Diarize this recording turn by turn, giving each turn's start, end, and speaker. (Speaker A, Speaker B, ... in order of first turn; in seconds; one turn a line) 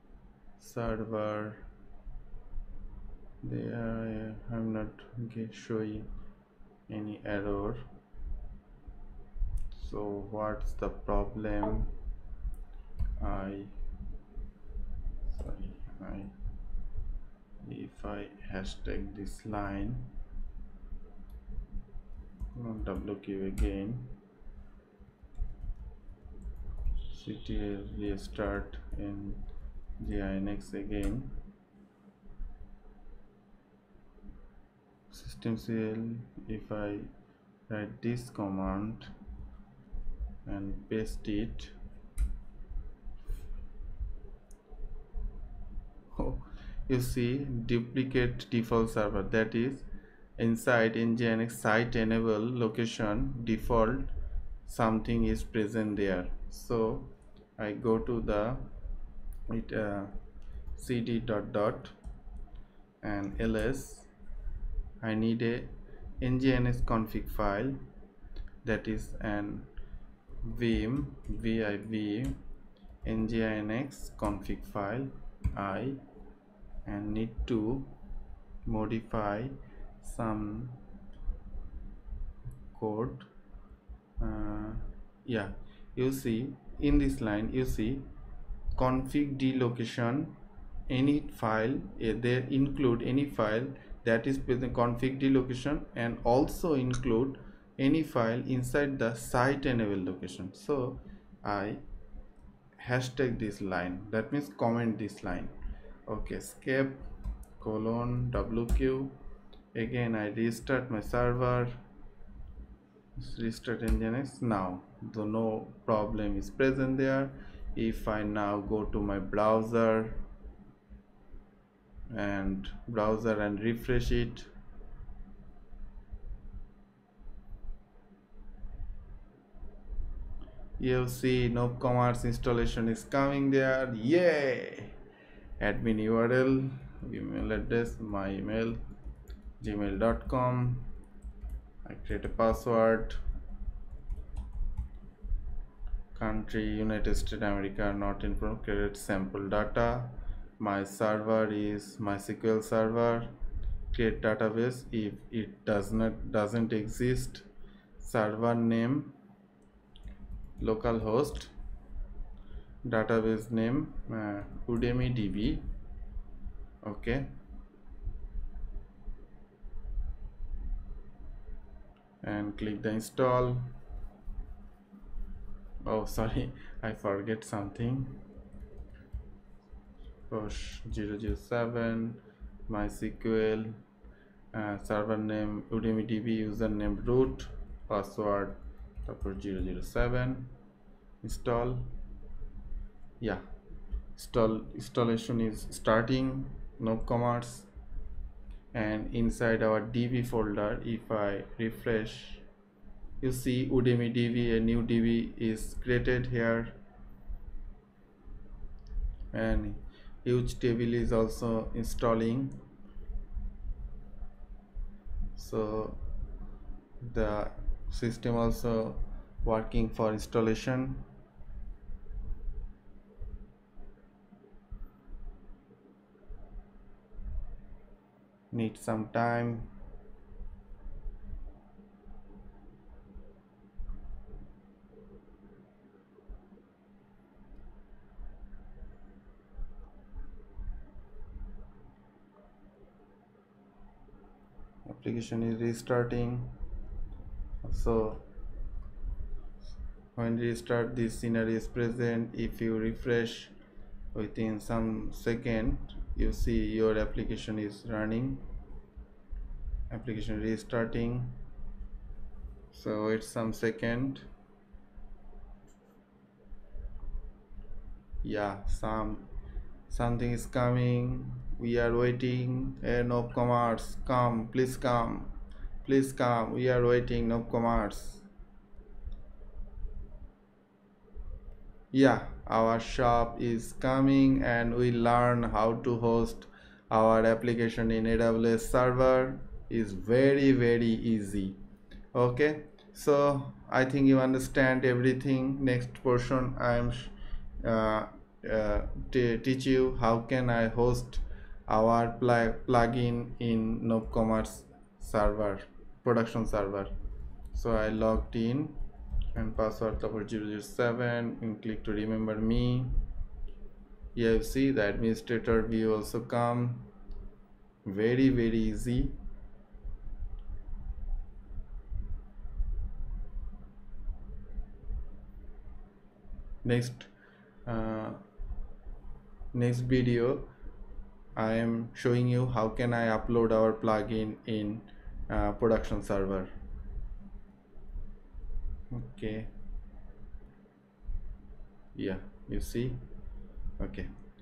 Speaker A: 0.6-1.6
Speaker A: 3.4-6.1
Speaker A: 6.9-7.8
Speaker A: 9.7-11.9
Speaker A: 13.2-13.7
Speaker A: 15.3-16.3
Speaker A: 17.6-20.1
Speaker A: 22.5-24.1
Speaker A: 27.1-29.4
Speaker A: 30.0-31.3
Speaker A: 35.1-37.1
Speaker A: 37.7-39.1
Speaker A: 40.5-41.7
Speaker A: 46.1-49.9
Speaker A: 50.4-54.1
Speaker A: 54.6-58.6
Speaker A: 59.5-60.1
Speaker A: 60.7-61.9
Speaker A: 63.0-64.1
Speaker A: 65.0-65.7
Speaker A: 66.2-67.8
Speaker A: 68.6-69.7
Speaker A: 70.4-72.3
Speaker A: 73.0-76.0
Speaker A: 76.8-77.9
Speaker A: 78.6-80.8
Speaker A: 82.7-83.3
Speaker A: 84.2-88.0
Speaker A: 88.8-90.3
Speaker A: 90.9-101.8
Speaker A: 102.8-105.5
Speaker A: 106.1-107.0
Speaker A: 107.6-109.1
Speaker A: 109.7-111.8
Speaker A: 113.2-120.2
Speaker A: 122.1-124.5
Speaker A: 130.8-134.9
Speaker A: 135.6-138.8
Speaker A: 139.6-140.9
Speaker A: 141.8-143.2
Speaker A: 146.1-153.3
Speaker A: 153.9-157.4
Speaker A: 158.0-159.1
Speaker A: 160.6-161.5
Speaker A: 162.8-165.6
Speaker A: 166.8-167.3
Speaker A: 172.2-173.6
Speaker A: 175.8-178.2
Speaker A: 180.3-183.7
Speaker A: 184.5-190.5
Speaker A: 191.2-191.9
Speaker A: 194.1-197.7
Speaker A: 198.7-202.4
Speaker A: 203.2-206.8
Speaker A: 209.3-212.6
Speaker A: 215.3-216.0
Speaker A: 217.0-221.0
Speaker A: 228.5-229.7
Speaker A: 244.8-246.5
Speaker A: 247.6-248.2
Speaker A: 250.1-253.5
Speaker A: 254.1-258.4
Speaker A: 259.9-261.3
Speaker A: 262.7-264.2
Speaker A: 268.2-269.2
Speaker A: 269.9-275.3
Speaker A: 275.8-278.2
Speaker A: 281.9-291.6
Speaker A: 292.1-306.9
Speaker A: 307.5-308.7
Speaker A: 309.3-312.9
Speaker A: 314.1-316.9
Speaker A: 317.8-319.1
Speaker A: 326.6-327.1
Speaker A: 327.6-328.2
Speaker A: 329.5-330.5
Speaker A: 331.4-336.5
Speaker A: 338.9-339.5
Speaker A: 341.9-343.0
Speaker A: 343.8-344.1